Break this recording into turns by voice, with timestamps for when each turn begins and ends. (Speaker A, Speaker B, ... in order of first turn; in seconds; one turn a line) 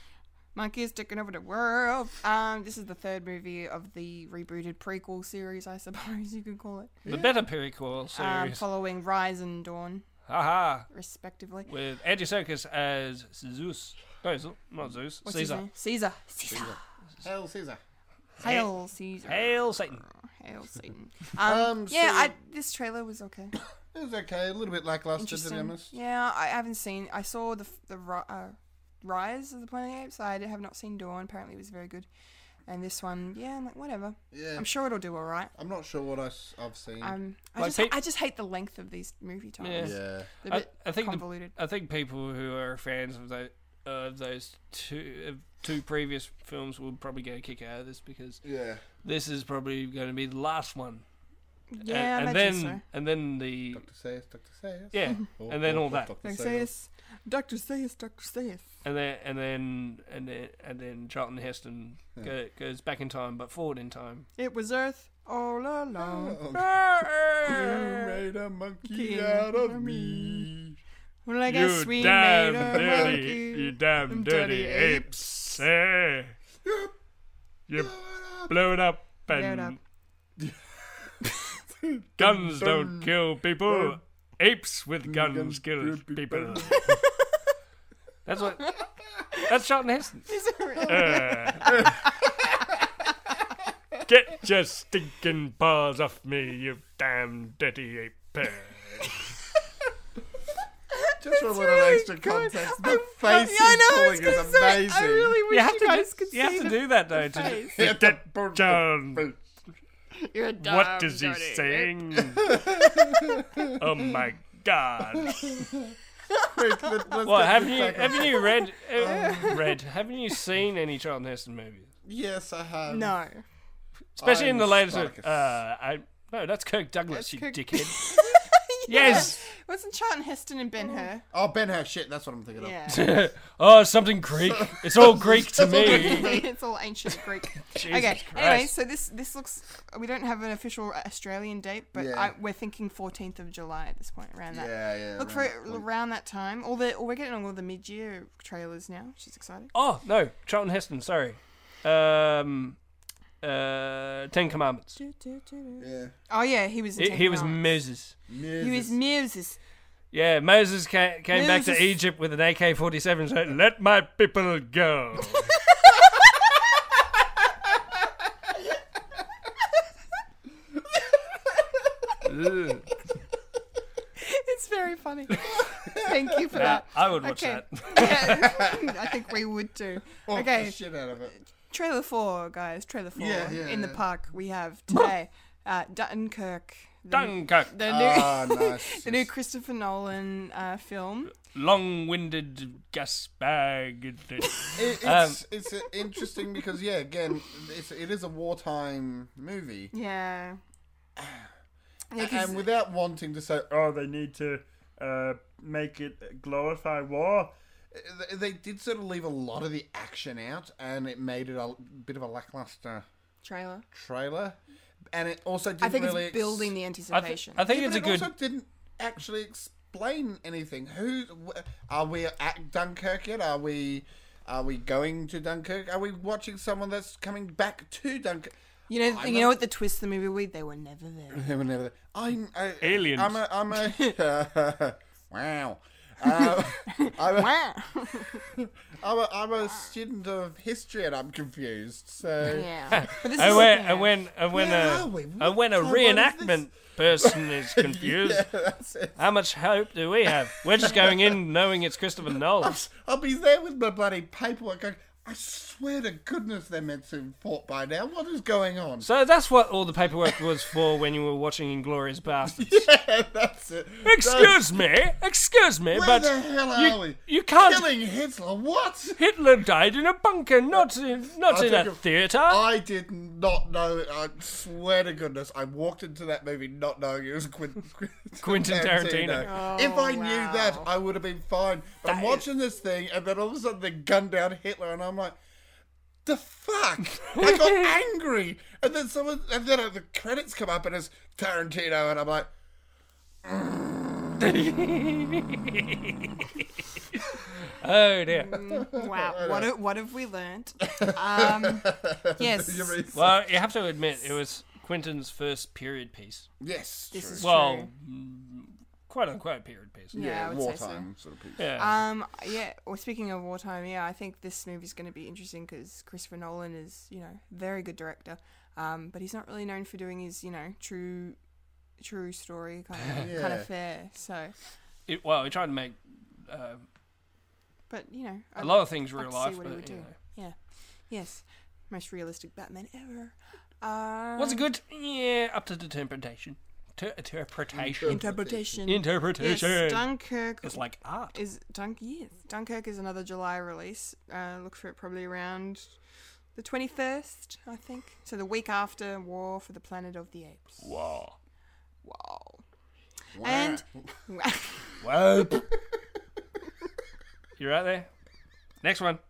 Speaker A: 0.5-7.1
Speaker B: 7.0-7.3
Speaker C: 7.0-8.6
Speaker A: 8.1-10.0
Speaker C: 10.3-10.9
Speaker A: 10.9-11.7
Speaker C: 11.7-15.7
Speaker A: 15.2-16.8
Speaker B: 16.5-17.8
Speaker A: 18.4-23.6
Speaker C: 18.4-18.7
Speaker C: 19.2-20.0
Speaker B: 21.4-22.3
Speaker B: 23.9-25.9
Speaker A: 25.2-32.1
Speaker A: 32.7-35.5
Speaker B: 34.3-34.6
Speaker B: 35.5-37.1
Speaker A: 37.0-41.5
Speaker C: 37.6-38.0
Speaker C: 39.6-48.4
Speaker B: 39.8-40.3
Speaker B: 48.4-48.8
Speaker C: 49.0-51.0
Speaker A: 51.7-52.8
Speaker C: 51.9-53.8
Speaker B: 53.7-56.7
Speaker C: 54.9-56.1
Speaker A: 56.2-58.7
Speaker C: 58.8-64.3
Speaker A: 64.4-66.4
Speaker B: 66.0-66.8
Speaker C: 66.5-68.2
Speaker B: 67.4-70.8
Speaker A: 68.9-70.5
Speaker A: 71.2-75.6
Speaker C: 71.5-76.3
Speaker B: 72.7-73.2
Speaker B: 76.6-76.9
Speaker C: 77.7-77.9
Speaker B: 77.7-78.5
Speaker C: 78.5-79.8
Speaker A: 79.3-79.8
Speaker B: 80.4-83.1
Speaker C: 82.2-87.0
Speaker B: 83.6-84.0
Speaker B: 85.0-86.9
Speaker A: 86.7-87.3
Speaker C: 88.2-88.8
Speaker A: 88.6-89.5
Speaker C: 89.3-91.9
Speaker A: 90.3-93.1
Speaker B: 91.6-92.0
Speaker C: 94.0-99.1
Speaker A: 100.9-107.8
Speaker B: 101.2-105.4
Speaker C: 105.5-109.3
Speaker B: 107.5-109.4
Speaker A: 110.1-112.2
Speaker C: 110.6-112.6
Speaker B: 112.4-114.2
Speaker C: 113.6-115.7
Speaker B: 115.1-116.0
Speaker A: 116.3-117.0
Speaker B: 116.5-119.6
Speaker C: 117.2-121.9
Speaker A: 119.0-119.8
Speaker B: 122.0-123.2
Speaker A: 122.9-123.4
Speaker C: 124.2-128.2
Speaker B: 124.2-125.5
Speaker A: 127.1-131.2
Speaker C: 128.9-129.4
Speaker B: 129.0-129.3
Speaker B: 131.3-132.8
Speaker A: 132.5-133.1
Speaker C: 132.9-136.4
Speaker B: 134.3-136.5
Speaker A: 135.6-149.7
Speaker C: 137.6-138.7
Speaker B: 141.9-142.3
Speaker B: 144.5-145.8
Speaker C: 149.7-152.8
Speaker C: 153.4-155.0
Speaker A: 155.0-157.7
Speaker B: 155.8-156.1
Speaker C: 157.0-158.1
Speaker B: 158.3-158.9
Speaker A: 158.6-159.6
Speaker C: 160.1-165.6
Speaker A: 161.3-161.9
Speaker A: 165.7-166.2
Speaker C: 172.2-172.9
Speaker A: 174.2-180.8
Speaker B: 175.4-176.8
Speaker C: 176.5-178.5
Speaker B: 178.3-179.0
Speaker B: 180.2-181.3
Speaker A: 181.3-191.3
Speaker B: 183.2-184.0
Speaker C: 187.1-187.7
Speaker B: 187.8-189.3
Speaker C: 191.4-195.4
Speaker A: 194.4-194.8
Speaker B: 194.7-199.9
Speaker A: 199.9-200.6
Speaker B: 201.2-201.5
Speaker A: 202.1-202.7
Speaker B: 202.2-213.0
Speaker A: 213.4-213.9
Speaker B: 213.9-214.6
Speaker B: 215.1-216.8
Speaker A: 215.8-217.6
Speaker C: 217.1-218.3
Speaker B: 217.6-229.6
Speaker A: 228.9-231.5
Speaker B: 231.3-237.6
Speaker C: 232.8-233.4
Speaker A: 233.7-234.2
Speaker A: 236.2-238.4
Speaker B: 238.5-243.7
Speaker A: 242.5-244.1
Speaker C: 242.9-248.5
Speaker B: 244.5-246.6
Speaker B: 247.2-249.2
Speaker C: 249.2-252.8
Speaker B: 250.8-251.4
Speaker B: 252.6-259.1
Speaker C: 259.0-262.8
Speaker B: 260.2-260.7
Speaker B: 262.4-264.6
Speaker C: 264.0-267.9
Speaker B: 265.9-269.2
Speaker C: 269.2-272.6
Speaker B: 271.4-285.4
Speaker C: 278.4-279.5
Speaker A: 279.4-280.9
Speaker C: 282.0-282.4
Speaker B: 286.2-292.5
Speaker C: 287.4-287.7
Speaker B: 293.4-294.3
Speaker C: 294.4-298.7
Speaker A: 298.3-303.0
Speaker B: 298.7-299.7
Speaker B: 300.8-303.4
Speaker C: 303.1-306.5
Speaker B: 306.6-307.5
Speaker A: 307.1-307.9
Speaker C: 307.4-310.1
Speaker A: 310.1-311.1
Speaker B: 310.1-311.7
Speaker C: 311.6-311.9
Speaker A: 311.7-321.4
Speaker A: 322.0-324.5
Speaker B: 323.1-323.7
Speaker C: 325.1-326.9
Speaker A: 327.9-330.6
Speaker C: 328.6-330.1
Speaker A: 331.1-334.6
Speaker C: 334.4-338.3
Speaker B: 337.7-338.8
Speaker A: 338.1-346.0
Speaker C: 338.9-341.4
Speaker A: 346.5-350.9
Speaker C: 350.8-351.4
Speaker A: 352.0-352.6
Speaker B: 353.4-354.1
Speaker A: 353.4-355.0
Speaker C: 355.0-355.7
Speaker C: 357.6-358.1
Speaker C: 358.8-359.2